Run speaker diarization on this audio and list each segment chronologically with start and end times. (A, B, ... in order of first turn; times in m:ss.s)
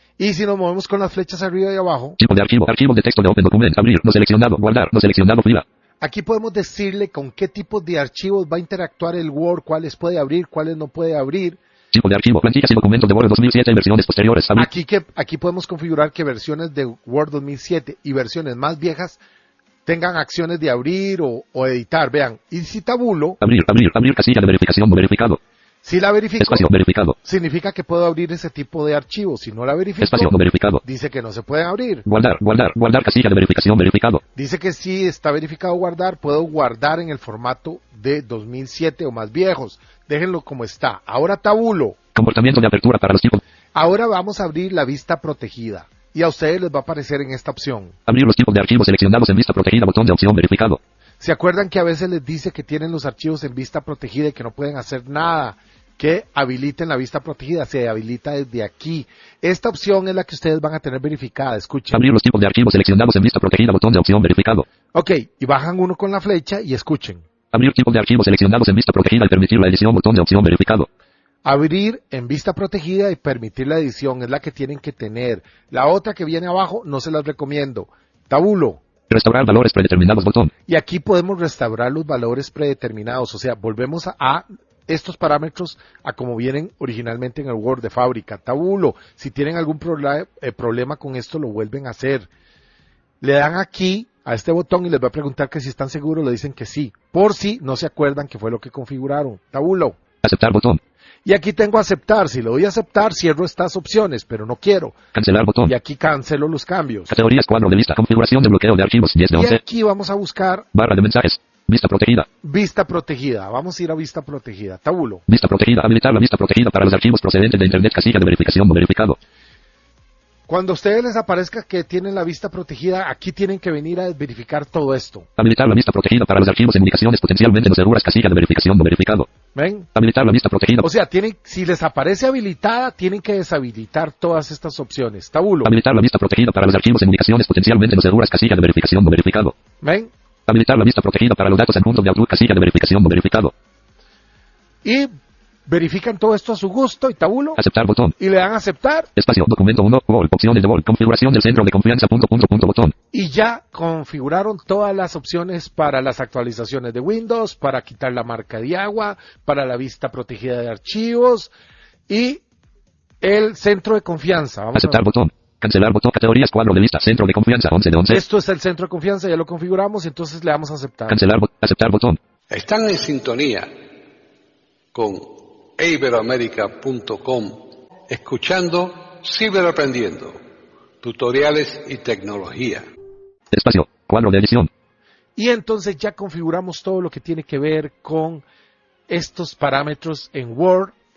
0:00.2-0:02.2 A
0:02.2-0:05.6 B
0:06.0-0:11.6 A
0:11.9-0:14.6 B
0:14.5-0:19.2 A
0:19.8-0:23.4 A
0:23.4-0:25.4 B
0:25.8-0:26.7 A
0:26.4-0:27.2 B
0:27.2-0:32.0 A
0:30.0-0:30.8 B
0:32.1-0:34.2 B
0:34.4-0:42.0 A
0:42.1-0:43.4 B
0:43.7-0:48.0 A
0:48.1-0:50.8 B
0:51.2-1:02.1 A
1:01.9-1:04.6 B
1:04.9-1:07.2 A
1:07.5-1:10.9 B
1:11.4-1:18.8 A
1:19.1-1:20.5 B
1:20.7-1:32.3 A
1:33.2-1:40.0 A
1:40.2-1:40.8 B
1:41.2-1:45.0 A
1:45.1-1:45.7 B
1:45.7-1:47.2 A
1:47.1-1:49.6 B
1:49.3-1:50.7 A
1:50.8-1:52.3 B
1:52.4-1:55.2 A
1:55.3-1:59.2 B
2:00.5-2:05.3 A
2:05.4-2:09.3 B
2:09.5-2:09.9 A
2:10.0-2:10.8 B
2:10.8-2:15.8 A
2:15.6-2:19.6 B
2:19.8-2:20.1 A
2:20.5-2:23.5 B
2:24.8-2:25.1 A
2:25.7-2:27.6 A
2:27.6-2:28.1 B
2:28.2-2:29.1 A
2:29.2-2:32.9 B
2:33.1-2:41.5 A
2:42.1-2:42.4 A
2:43.2-2:45.0 A
2:44.8-2:48.2 B
2:48.1-2:51.2 A
2:51.1-2:52.2 B
2:52.5-2:53.7 C
2:54.9-3:00.4 C
3:01.0-3:02.8 C
3:03.5-3:04.7 B
3:05.4-3:08.4 A
3:09.1-3:11.0 A